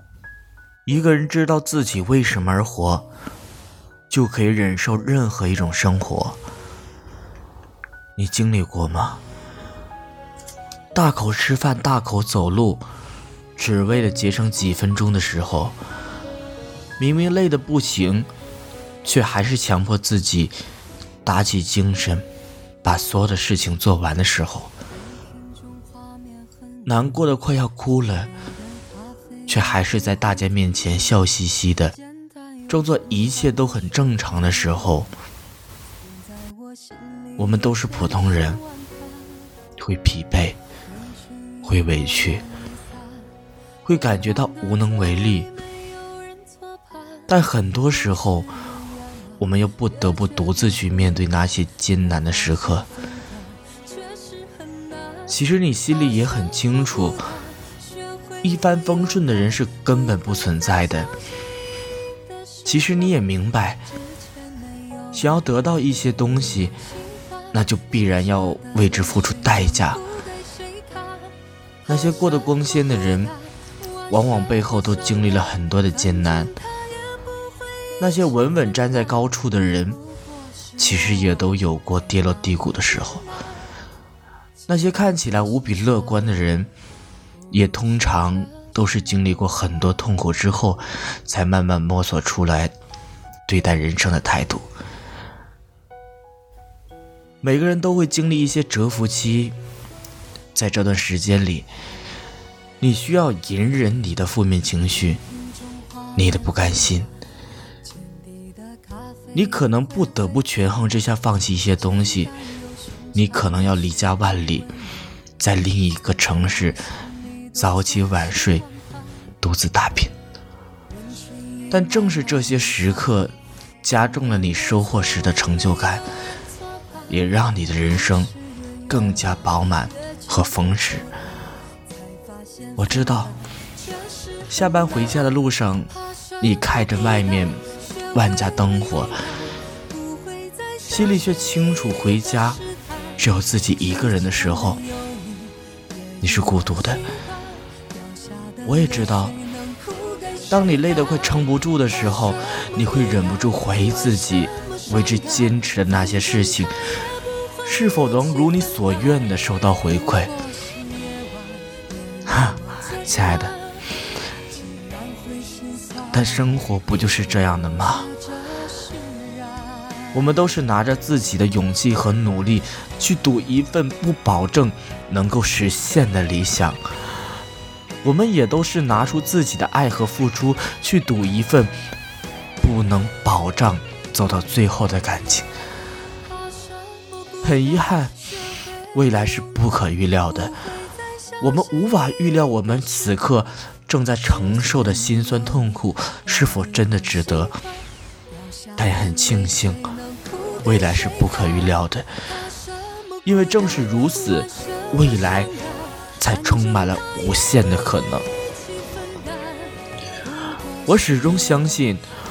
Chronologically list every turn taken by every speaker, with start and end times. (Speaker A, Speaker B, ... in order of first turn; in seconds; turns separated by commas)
Speaker A: 0.8-3.0, Speaker A: 4.1-6.4, Speaker A: 8.2-9.2, Speaker A: 10.9-12.8, Speaker A: 13.6-15.8, Speaker A: 17.0-18.3, Speaker A: 19.0-20.6, Speaker A: 21.2-22.2, Speaker A: 22.8-24.7, Speaker A: 26.9-28.3, Speaker A: 29.5-31.9, Speaker A: 32.7-35.1, Speaker A: 37.4-38.6, Speaker A: 39.8-40.6, Speaker A: 41.6-42.5, Speaker A: 43.8-45.5, Speaker A: 47.3-48.5, Speaker A: 49.4-52.9, Speaker A: 55.3-57.3, Speaker A: 58.4-61.1, Speaker A: 62.6-63.8, Speaker A: 65.1-66.8, Speaker A: 67.5-70.0, Speaker A: 71.9-73.3, Speaker A: 74.1-76.6, Speaker A: 78.0-80.0, Speaker A: 80.8-83.2, Speaker A: 84.7-86.7, Speaker A: 87.5-92.7, Speaker A: 93.5-94.7, Speaker A: 97.4-99.5, Speaker A: 100.5-101.7, Speaker A: 102.8-105.2, Speaker A: 106.1-107.1, Speaker A: 109.3-112.3, Speaker A: 113.1-114.7, Speaker A: 115.4-116.8, Speaker A: 117.5-118.7, Speaker A: 119.4-120.1, Speaker A: 121.7-126.1, Speaker A: 127.1-128.3, Speaker A: 128.9-131.1, Speaker A: 132.8-133.3, Speaker A: 134.5-139.2, Speaker A: 140.9-142.6, Speaker A: 143.2-144.8, Speaker A: 146.2-147.1, Speaker A: 148.6-149.4, Speaker A: 150.5-156.8, Speaker A: 157.6-160.3, Speaker A: 162.2-163.6, Speaker A: 166.1-168.1, Speaker A: 170.1-176.8, Speaker A: 178.0-181.7, Speaker A: 182.6-185.5, Speaker A: 187.4-188.2, Speaker A: 188.9-190.6, Speaker A: 191.4-197.6, Speaker A: 198.8-199.8, Speaker A: 200.6-202.1, Speaker A: 203.2-205.5, Speaker A: 206.2-208.2, Speaker A: 210.8-212.1